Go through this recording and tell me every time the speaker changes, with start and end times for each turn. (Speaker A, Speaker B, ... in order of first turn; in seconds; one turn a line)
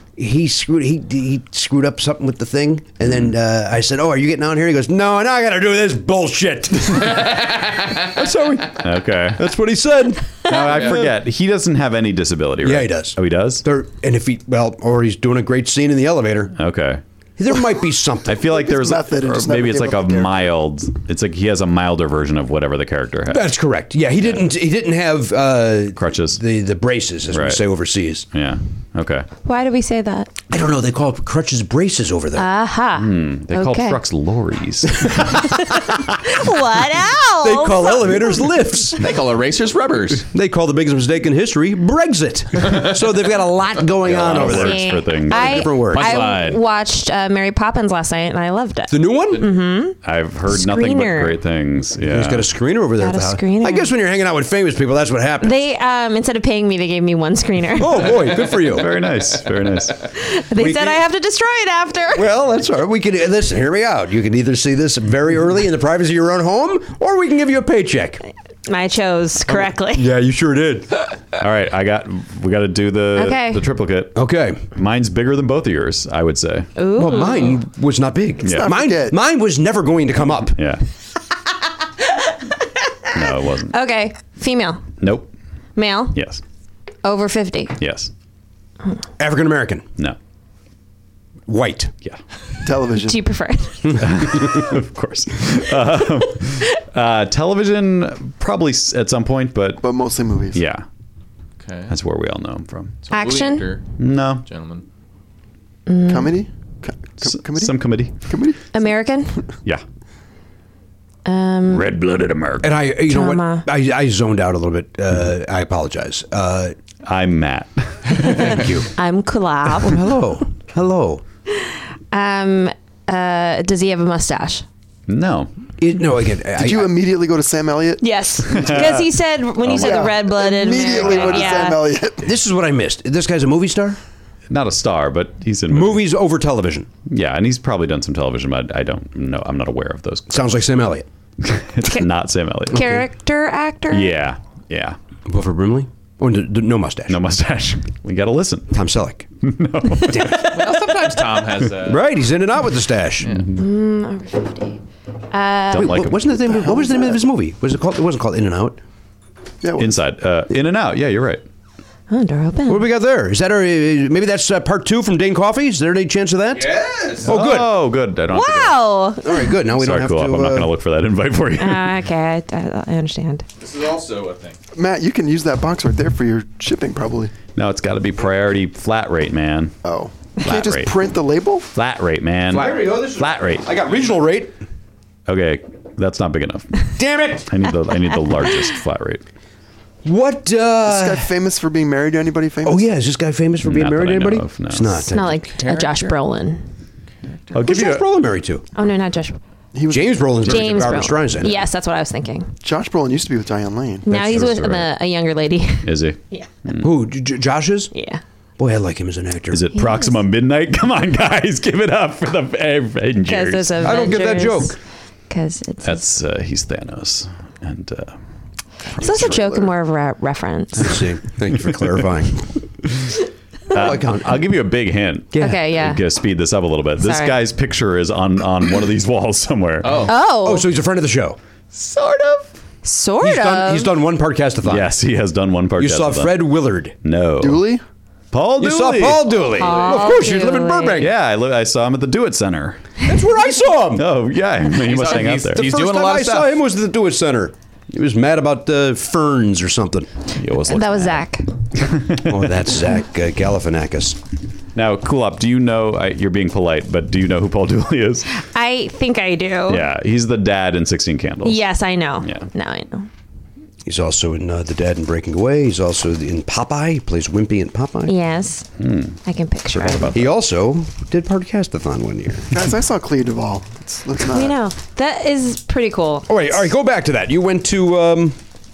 Speaker A: 0.2-11.1
Speaker B: 7.2-7.5
Speaker C: 8.8-9.4
Speaker C: 10.5-13.6
Speaker B: 10.7-11.0
Speaker A: 12.6-16.5
Speaker C: 16.6-17.0
Speaker A: 17.4-18.4
Speaker C: 18.3-23.5
Speaker D: 18.4-20.5
Speaker A: 23.3-28.3
Speaker C: 26.0-26.4
Speaker C: 27.3-27.6
Speaker C: 28.3-29.3
Speaker E: 29.4-30.3
Speaker A: 30.5-32.5
Speaker E: 32.3-34.0
Speaker C: 33.0-35.5
Speaker E: 35.4-38.5
Speaker A: 37.4-39.0
Speaker B: 39.0-40.3
Speaker A: 40.3-46.2
Speaker C: 44.0-45.6
Speaker E: 44.2-51.4
Speaker B: 45.9-46.6
Speaker A: 48.9-49.5
Speaker C: 50.0-52.5
Speaker A: 52.1-55.6
Speaker E: 53.0-53.9
Speaker E: 55.4-58.3
Speaker A: 57.8-58.9
Speaker C: 58.7-60.0
Speaker E: 60.2-62.3
Speaker A: 60.6-61.0
Speaker A: 62.1-68.2
Speaker E: 68.7-70.1
Speaker A: 69.9-70.9
Speaker C: 71.4-74.1
Speaker E: 73.2-73.6
Speaker A: 74.2-74.6
Speaker C: 74.7-76.7
Speaker E: 76.8-77.6
Speaker A: 77.0-80.6
Speaker C: 78.4-78.7
Speaker D: 78.4-79.2
Speaker C: 80.4-80.8
Speaker C: 83.1-83.8
Speaker E: 83.7-84.9
Speaker C: 85.0-85.3
Speaker E: 85.8-86.2
Speaker C: 86.1-86.4
Speaker E: 87.0-87.8
Speaker C: 87.8-88.1
Speaker A: 89.2-89.8
Speaker A: 91.5-91.9
Speaker D: 92.6-93.2
Speaker E: 93.0-94.0
Speaker A: 93.8-94.7
Speaker C: 94.0-99.8
Speaker D: 99.8-100.6
Speaker C: 100.5-100.8
Speaker B: 101.6-101.9
Speaker C: 101.9-103.0
Speaker B: 103.0-103.8
Speaker E: 103.1-103.8
Speaker C: 104.0-104.5
Speaker B: 104.5-104.8
Speaker E: 105.9-106.4
Speaker D: 106.1-108.6
Speaker C: 107.2-108.2
Speaker E: 108.7-109.4
Speaker E: 111.2-111.9
Speaker C: 111.7-112.8
Speaker A: 112.6-116.8
Speaker E: 113.0-113.7
Speaker C: 117.0-118.5
Speaker A: 118.4-118.9
Speaker E: 118.4-120.0
Speaker A: 119.8-121.2
Speaker E: 121.5-124.7
Speaker C: 125.1-125.5
Speaker A: 125.8-126.9
Speaker D: 126.6-129.1
Speaker E: 128.0-131.9
Speaker C: 128.5-129.1
Speaker C: 129.6-130.0
Speaker D: 129.6-132.2
Speaker A: 132.2-134.0
Speaker C: 134.5-136.1
Speaker A: 135.7-136.9
Speaker C: 137.1-140.6
Speaker A: 140.3-141.1
Speaker C: 141.4-143.0
Speaker E: 142.7-144.1
Speaker C: 143.9-145.0
Speaker A: 145.3-147.2
Speaker C: 147.1-148.8
Speaker A: 148.7-149.3
Speaker C: 149.4-151.0
Speaker A: 150.0-150.6
Speaker B: 150.4-152.0
Speaker A: 151.8-153.3
Speaker C: 153.2-153.5
Speaker E: 153.6-154.8
Speaker E: 155.3-156.0
Speaker C: 155.7-156.2
Speaker A: 155.7-158.8
Speaker D: 156.5-157.2
Speaker D: 159.6-159.9
Speaker C: 159.8-161.4
Speaker E: 162.1-162.9
Speaker A: 162.7-167.7
Speaker B: 166.5-167.3
Speaker C: 167.2-168.8
Speaker E: 168.3-169.6
Speaker A: 169.2-170.7
Speaker C: 169.7-172.0
Speaker E: 171.6-173.4
Speaker B: 173.6-174.6
Speaker D: 174.8-177.3
Speaker C: 177.6-179.8
Speaker D: 179.8-181.7
Speaker C: 180.4-180.9
Speaker C: 181.8-183.7
Speaker A: 182.5-184.6
Speaker C: 185.3-186.8
Speaker A: 187.0-187.5
Speaker C: 187.5-189.2
Speaker A: 190.0-191.3
Speaker D: 190.9-192.9
Speaker A: 192.6-195.4
Speaker C: 193.6-195.0
Speaker E: 195.1-196.7
Speaker B: 195.6-196.2
Speaker C: 197.5-198.1
Speaker A: 197.5-198.6
Speaker E: 198.8-199.4
Speaker D: 199.7-201.0
Speaker A: 199.9-201.7
Speaker E: 200.4-202.5
Speaker D: 202.6-204.1
Speaker E: 204.1-206.5
Speaker C: 204.1-204.9
Speaker C: 205.8-206.9
Speaker A: 206.8-207.9
Speaker E: 207.9-208.2
Speaker A: 208.6-209.7
Speaker C: 209.5-213.9
Speaker E: 209.8-210.1
Speaker E: 213.2-214.8
Speaker A: 213.8-214.8
Speaker E: 215.3-216.0
Speaker C: 215.8-218.2
Speaker D: 218.9-219.7
Speaker E: 219.0-221.0
Speaker A: 220.8-222.5
Speaker A: 223.7-224.4
Speaker C: 223.7-230.1
Speaker A: 225.3-225.6
Speaker E: 225.4-226.0
Speaker E: 227.0-227.4
Speaker B: 229.8-230.1
Speaker E: 230.1-230.7
Speaker A: 230.4-231.4
Speaker B: 231.7-232.5
Speaker E: 232.8-233.9
Speaker A: 233.2-234.9
Speaker C: 234.6-236.4
Speaker A: 235.8-236.9
Speaker C: 237.0-237.7
Speaker D: 237.4-237.8
Speaker C: 238.3-239.3
Speaker A: 238.6-241.1
Speaker E: 239.4-241.1
Speaker C: 241.0-242.9
Speaker A: 243.0-244.1
Speaker C: 243.9-245.7
Speaker B: 244.7-246.6
Speaker A: 245.5-250.1
Speaker C: 250.4-251.3
Speaker E: 250.6-251.5
Speaker C: 251.8-252.7
Speaker A: 252.2-254.2
Speaker C: 254.8-258.3
Speaker E: 258.3-259.9
Speaker C: 259.7-261.6
Speaker E: 261.4-263.1
Speaker C: 262.2-262.5
Speaker A: 263.9-268.1
Speaker E: 268.1-268.7
Speaker C: 268.8-269.2
Speaker E: 269.2-270.1
Speaker C: 269.7-270.3
Speaker A: 270.1-272.5
Speaker D: 272.5-274.6
Speaker E: 274.3-276.3
Speaker A: 276.3-278.4